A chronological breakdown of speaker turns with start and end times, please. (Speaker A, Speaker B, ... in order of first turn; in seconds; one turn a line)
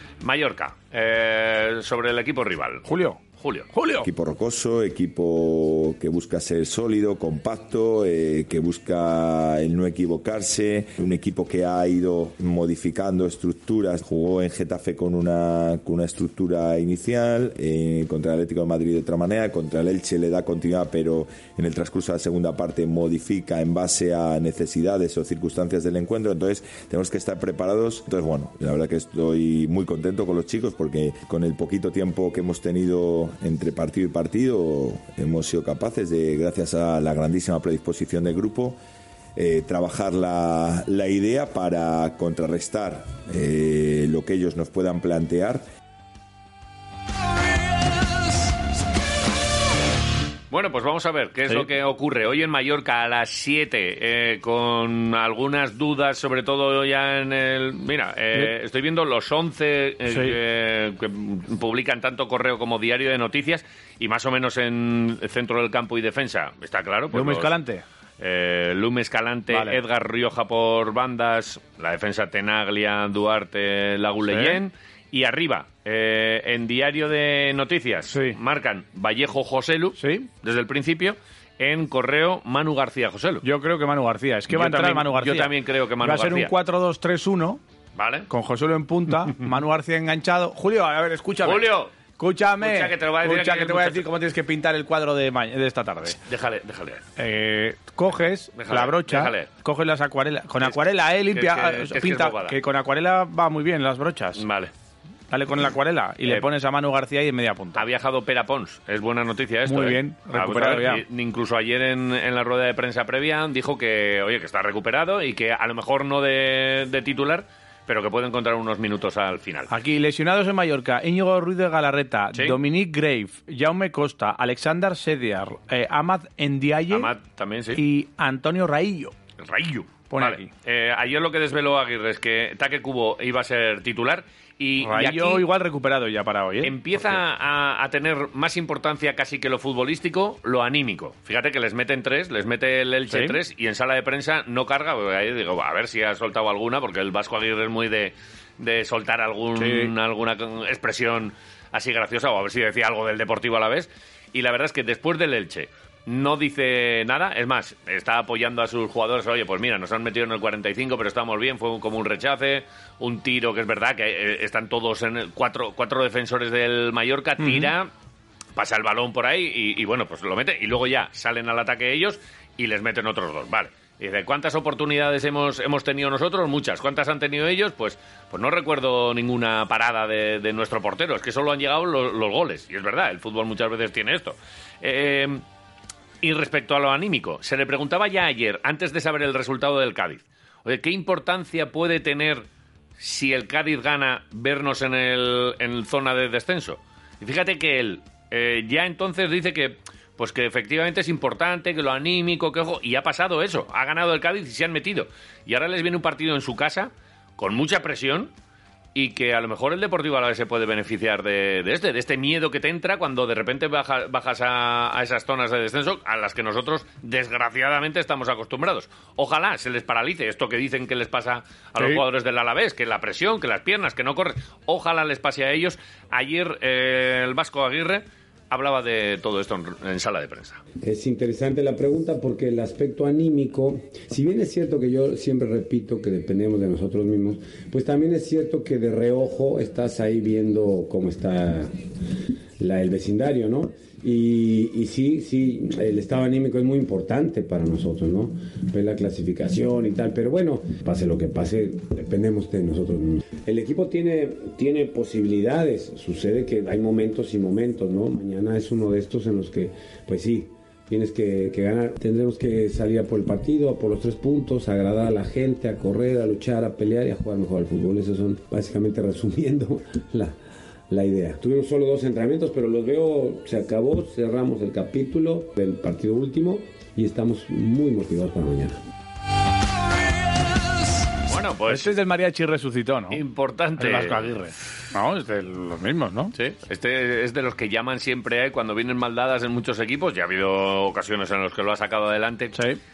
Speaker A: 0.2-3.7
Speaker B: 2.9-3.2
Speaker B: 3.7-4.1
Speaker C: 4.0-38.8
Speaker C: 39.4-45.6
Speaker A: 50.5-67.5
Speaker B: 60.1-60.4
Speaker B: 67.1-67.8
Speaker A: 68.2-83.5
Speaker B: 69.5-69.8
Speaker B: 74.3-74.6
Speaker B: 78.1-78.4
Speaker B: 80.0-80.3
Speaker B: 83.4-87.6
Speaker A: 84.5-86.5
Speaker A: 88.0-88.3
Speaker B: 88.3-91.7
Speaker A: 91.4-91.9
Speaker B: 92.2-96.2
Speaker A: 92.6-94.1
Speaker A: 96.2-97.0
Speaker B: 97.2-104.4
Speaker A: 98.5-99.5
Speaker A: 100.6-102.6
Speaker A: 104.4-104.7
Speaker B: 105.3-107.8
Speaker A: 107.8-119.7
Speaker B: 109.7-111.0
Speaker B: 119.7-127.1
Speaker A: 126.9-127.8
Speaker B: 127.8-129.1
Speaker A: 129.4-135.4
Speaker B: 130.1-130.5
Speaker B: 134.8-137.2
Speaker A: 136.6-167.9
Speaker B: 143.1-143.4
Speaker B: 149.6-149.9
Speaker B: 167.4-167.7
Speaker A: 168.6-185.4
Speaker A: 186.2-192.5
Speaker A: 193.0-208.3
Speaker A: 208.9-230.6
Speaker D: 230.8-241.7
Speaker D: 242.6-270.3
Speaker D: 270.9-278.8
Speaker A: 281.2-281.9
Speaker B: 281.7-283.2
Speaker A: 283.1-284.3
Speaker B: 283.8-286.3
Speaker A: 286.3-292.6
Speaker B: 292.5-292.8